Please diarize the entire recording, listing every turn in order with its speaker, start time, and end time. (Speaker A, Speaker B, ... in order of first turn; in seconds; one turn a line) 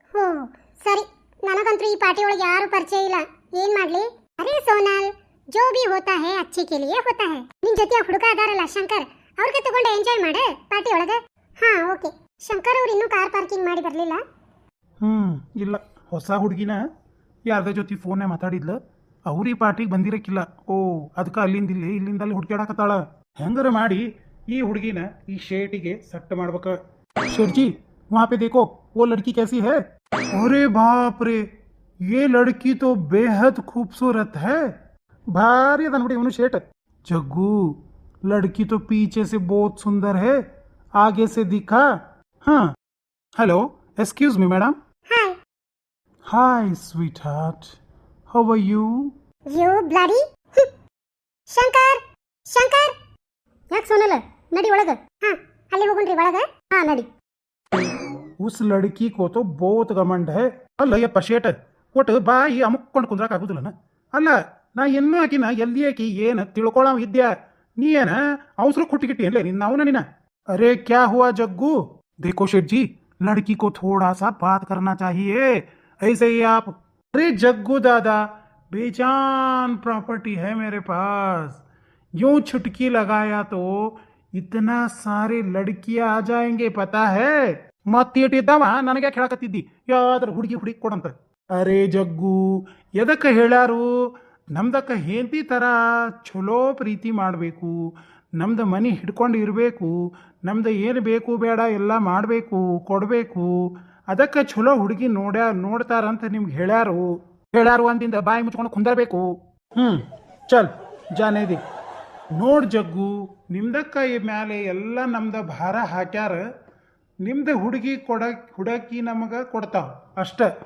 Speaker A: 0.1-14.2
Speaker B: 15.0-16.8
Speaker B: 17.5-31.4
Speaker B: 32.1-34.7
Speaker B: 35.3-40.4
Speaker B: 41.0-42.7
Speaker B: 43.4-44.8
Speaker A: 45.1-45.4
Speaker B: 46.3-47.8
Speaker B: 48.3-49.1
Speaker A: 49.5-50.7
Speaker A: 51.5-53.0
Speaker A: 53.7-57.1
Speaker B: 57.7-81.6
Speaker B: 82.2-93.9
Speaker B: 94.5-97.8
Speaker B: 98.4-111.6
Speaker B: 112.3-116.5
Speaker B: 117.2-120.5